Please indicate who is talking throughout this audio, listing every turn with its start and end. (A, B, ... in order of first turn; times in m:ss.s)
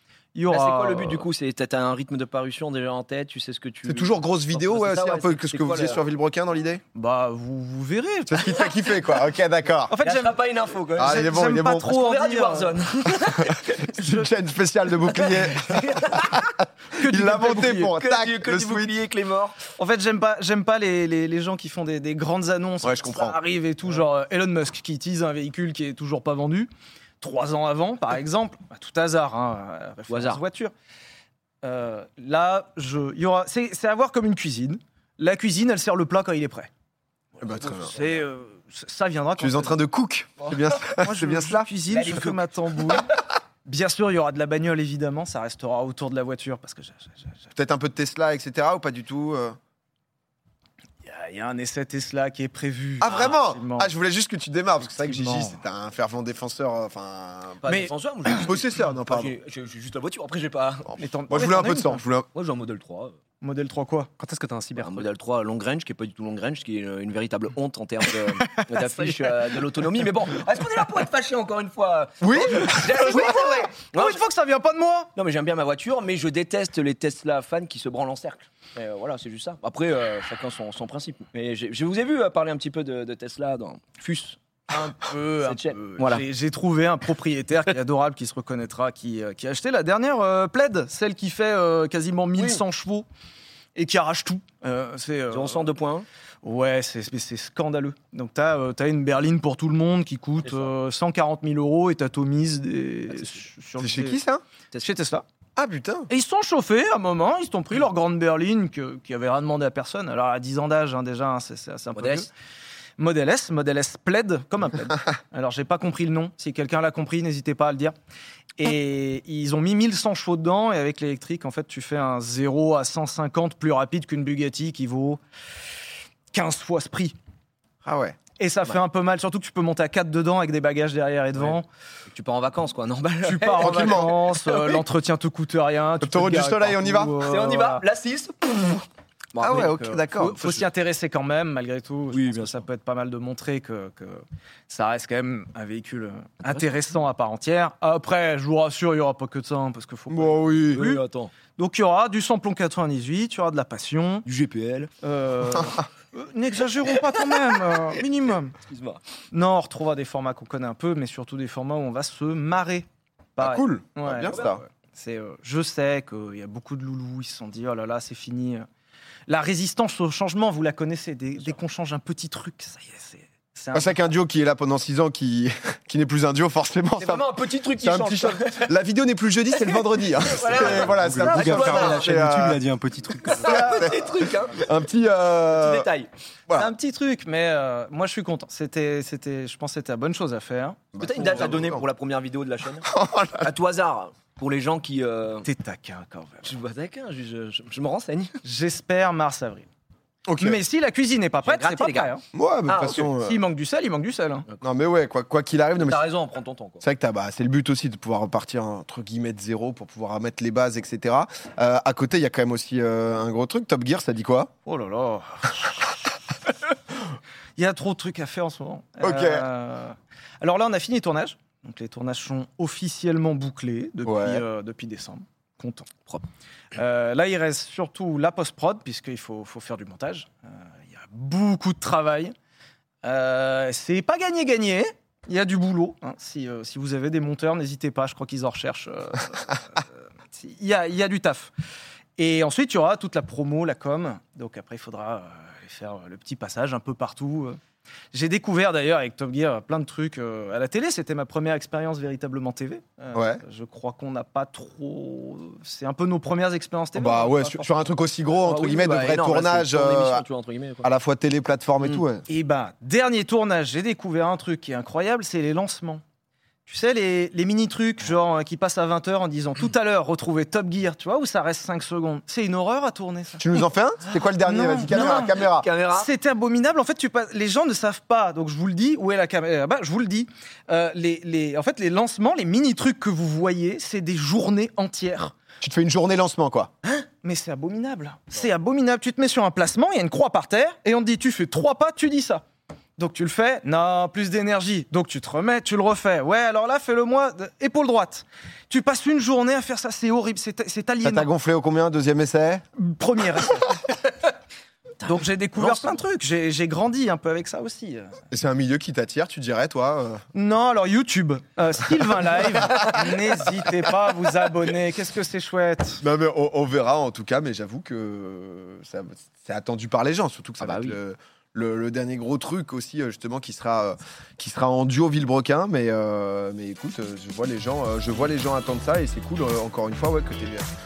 0:00.4-0:01.3 A
0:00.5-0:06.0 B
0:03.8-0:06.8 C
0:07.0-0:08.6 A
0:08.3-0:09.9 C
0:09.9-0:10.4 A
0:10.0-0:11.3 B
0:11.0-0:12.0 C
0:11.0-0:12.8 A
0:11.9-0:13.8 B
0:13.4-0:16.4 C
0:14.0-0:14.3 A
0:15.1-0:16.4 B
0:16.9-0:17.9 A
0:17.0-0:18.9 C
0:17.6-0:19.6 B
0:19.7-0:26.7 A
0:22.8-0:23.4 C
0:27.2-0:30.7 A
0:30.1-0:30.4 B
0:31.6-0:36.7 A
0:37.4-0:38.0 C
0:37.6-0:39.8 A
0:39.4-0:41.7 C
0:40.9-0:43.1 A
0:41.9-0:43.1 B
0:43.7-0:47.5 A
0:47.6-0:49.6 C
0:51.0-0:53.9 A
0:53.0-0:57.6 C
0:54.8-0:55.6 A
0:57.6-1:01.0 B
0:57.6-0:57.9 A
0:58.3-0:59.3 C
1:00.9-1:02.3 C
1:01.0-1:02.0 A
1:02.3-1:03.2 B
1:03.4-1:04.8 A
1:04.8-1:14.2 B
1:08.5-1:09.2 A
1:12.2-1:13.1 C
1:12.7-1:15.1 A
1:15.2-1:24.4 B
1:24.7-1:33.1 A
1:25.4-1:26.2 B
1:32.4-1:32.6 B
1:33.8-1:35.7 A
1:35.3-1:36.1 B
1:36.4-1:44.2 A
1:40.4-1:40.7 B
1:43.2-1:43.4 B
1:43.8-1:44.4 C
1:44.8-1:45.2 A
1:45.6-1:46.1 C
1:46.1-1:52.3 A
1:52.0-1:52.3 B
1:53.0-1:57.9 A
1:58.6-2:05.2 A
2:06.3-2:07.2 A
2:07.8-2:08.2 C
2:08.4-2:11.7 A
2:11.4-2:14.8 B
2:13.2-2:17.8 A
2:13.6-2:14.2 C
2:16.0-2:17.2 C
2:17.2-2:19.7 B
2:19.4-2:20.7 C
2:19.4-2:31.0 A
2:22.1-2:22.6 B
2:30.1-2:30.8 C
2:30.7-2:31.3 B
2:31.6-2:34.2 A
2:34.2-2:34.9 B
2:35.0-2:38.6 A
2:38.7-2:39.0 B
2:39.3-2:48.6 A
2:43.4-2:44.6 C
2:49.3-2:54.0 A
2:53.7-3:02.7 C
2:57.0-2:58.7 B
2:59.6-3:02.3 B
3:01.0-3:03.4 D
3:03.2-3:04.0 C
3:03.2-3:04.7 B
3:03.5-3:03.9 A
3:04.6-3:05.9 C
3:05.5-3:06.1 B
3:06.5-3:11.6 A
3:10.9-3:11.8 C
3:11.0-3:12.9 B
3:12.8-3:13.5 C
3:13.4-3:15.5 B
3:15.4-3:16.5 A
3:16.4-3:18.3 B
3:18.4-3:19.7 A
3:20.3-3:20.6 C
3:20.4-3:22.2 A
3:21.4-3:22.1 B
3:22.3-3:23.4 C
3:22.7-3:23.1 B
3:22.8-3:24.5 A
3:24.6-3:26.0 C
3:25.8-3:26.8 B
3:26.8-3:34.5 C
3:34.7-3:35.8 A
3:37.6-3:46.2 A
3:39.0-3:39.5 C
3:44.0-3:44.4 C
3:46.7-3:52.3 A
3:53.0-4:01.5 A
4:02.2-4:07.6 A
4:08.1-4:17.8 A
4:13.1-4:13.4 C
4:17.0-4:20.2 C
4:18.4-4:20.9 B
4:20.8-4:22.2 C
4:22.3-4:26.0 A
4:26.7-4:33.6 A
4:33.4-4:35.7 C
4:34.4-4:45.3 A
4:34.9-4:36.1 B
4:45.6-4:46.7 C
4:47.2-4:52.4 A
4:53.0-5:01.3 A
5:01.0-5:02.6 C
5:02.8-5:03.9 A
5:05.0-5:06.0 B
5:05.0-5:08.2 A
5:08.3-5:10.2 C
5:10.3-5:16.0 A
5:16.0-5:30.7 C
5:20.6-5:21.0 B